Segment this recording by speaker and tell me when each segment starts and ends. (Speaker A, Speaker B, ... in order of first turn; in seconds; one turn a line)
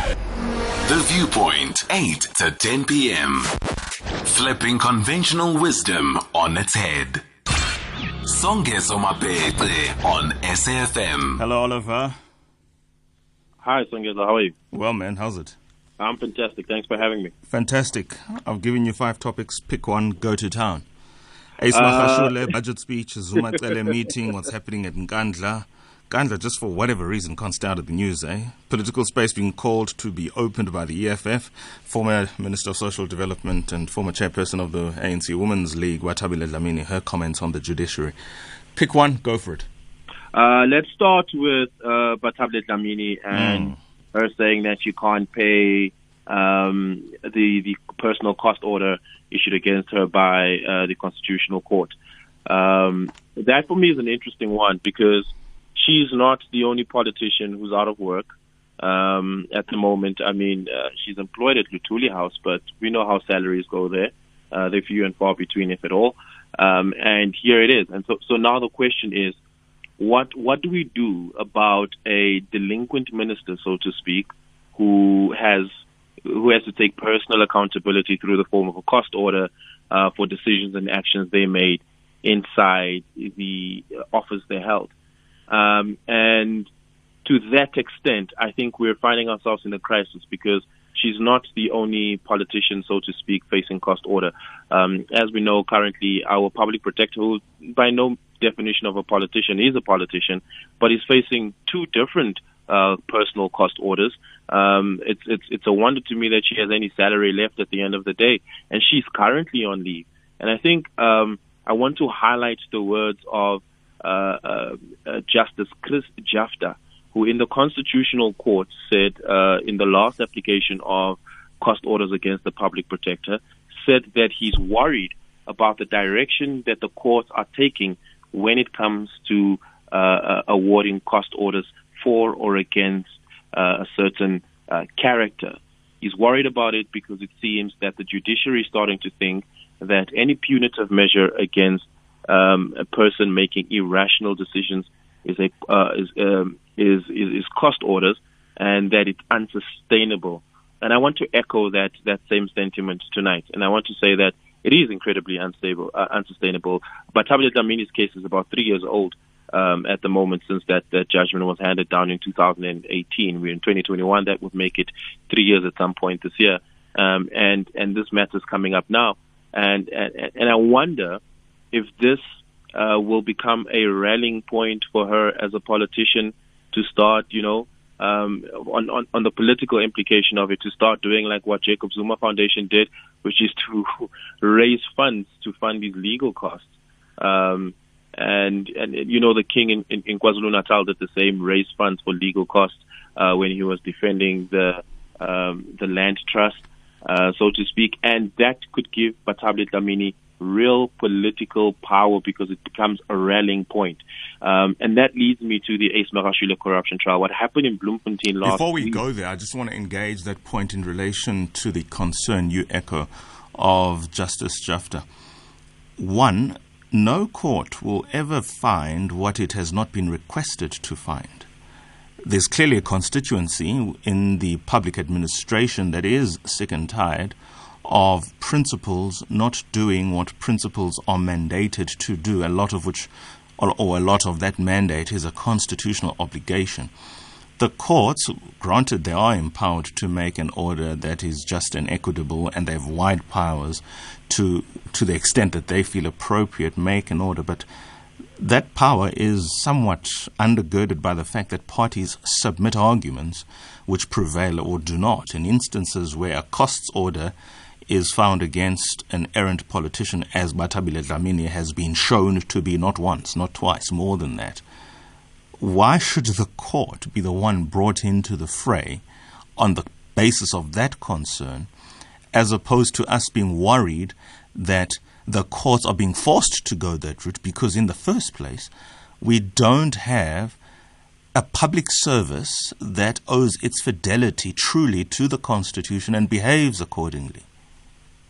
Speaker A: 0.8-3.5
Speaker A: 4.2-7.2
Speaker A: 8.2-11.4
Speaker B: 11.4-12.2
Speaker C: 13.6-14.5
Speaker B: 14.7-15.5
Speaker C: 16.0-17.3
Speaker B: 17.5-20.8
Speaker B: 21.6-38.1
Speaker C: 21.7-22.5
Speaker B: 38.7-39.7
Speaker C: 40.3-51.9
Speaker B: 43.3-43.8
Speaker C: 52.5-58.3
Speaker C: 58.8-69.4
Speaker C: 70.0-75.7
Speaker C: 76.2-84.9
Speaker C: 85.5-86.7
Speaker C: 87.2-171.2
Speaker C: 171.7-172.2
Speaker C: 172.7-209.0
Speaker B: 208.4-215.0
Speaker B: 216.0-221.5
Speaker B: 222.2-236.9
Speaker B: 237.6-247.7
Speaker B: 248.4-257.3
Speaker B: 257.9-264.6
Speaker B: 265.6-269.0
Speaker B: 269.6-271.7
Speaker B: 272.3-278.7
Speaker B: 279.2-280.6
Speaker B: 281.3-287.4